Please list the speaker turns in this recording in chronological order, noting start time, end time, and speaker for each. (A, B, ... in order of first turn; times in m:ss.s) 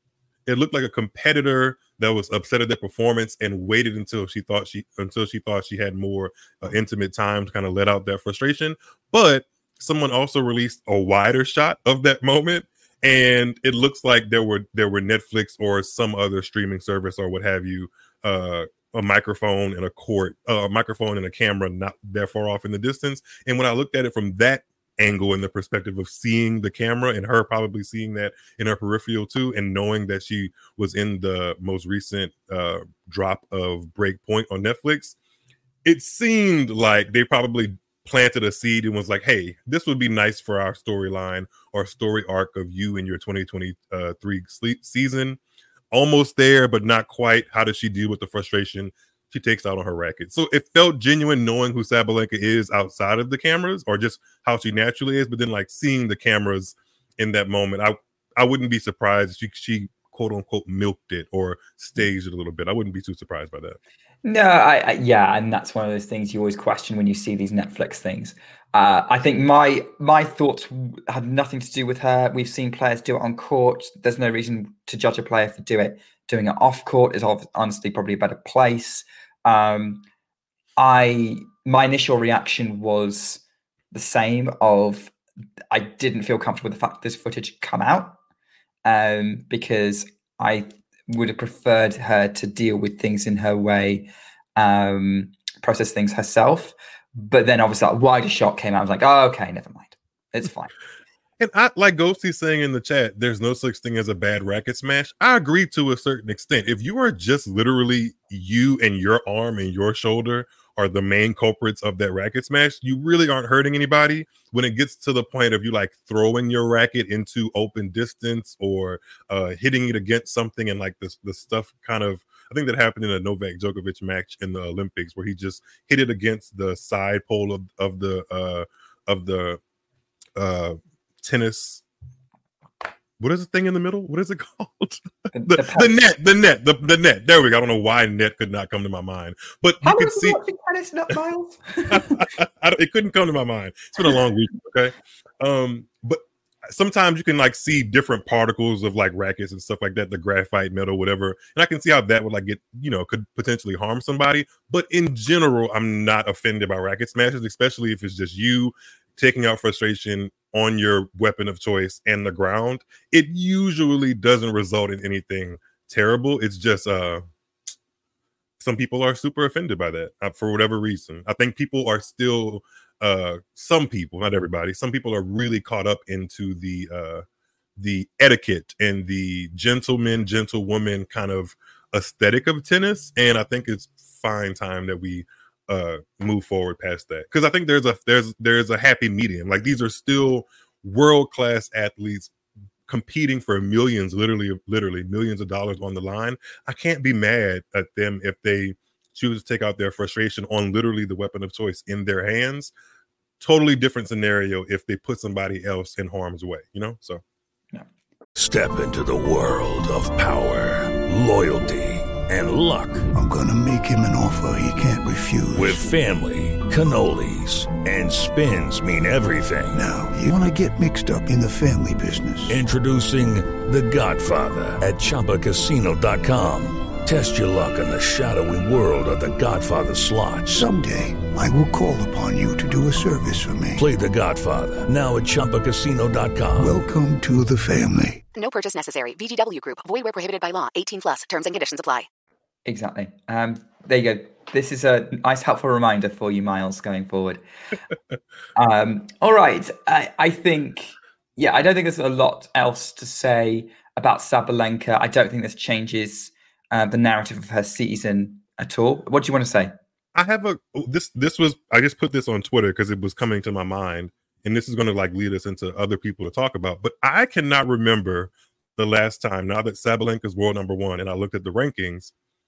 0:00.4-0:35.2 A
0:35.8-0:45.4 A
0:45.9-1:03.8 A
1:04.2-1:20.0 B
1:20.8-1:25.1 B
1:25.7-1:28.2 B
1:28.8-1:40.7 B
1:41.4-2:09.6 A
2:10.4-2:11.8 A
2:13.2-2:20.4 A
2:15.3-2:16.0 B
2:19.8-2:22.2 B
2:21.9-2:47.2 A
2:48.6-2:57.2 A
2:57.8-3:12.3 A
3:12.9-3:22.7 A
3:23.4-3:27.2 A
3:28.4-3:33.1 C
3:33.1-3:35.8 D
3:35.5-3:39.8 C
3:39.7-3:42.6 D
3:42.5-3:50.6 C
3:50.5-3:53.8 D
3:53.8-3:56.8 C
3:56.6-3:58.2 D
3:58.3-4:02.1 E
4:02.6-4:07.4 B
4:08.6-4:19.7 B
4:20.1-4:32.1 A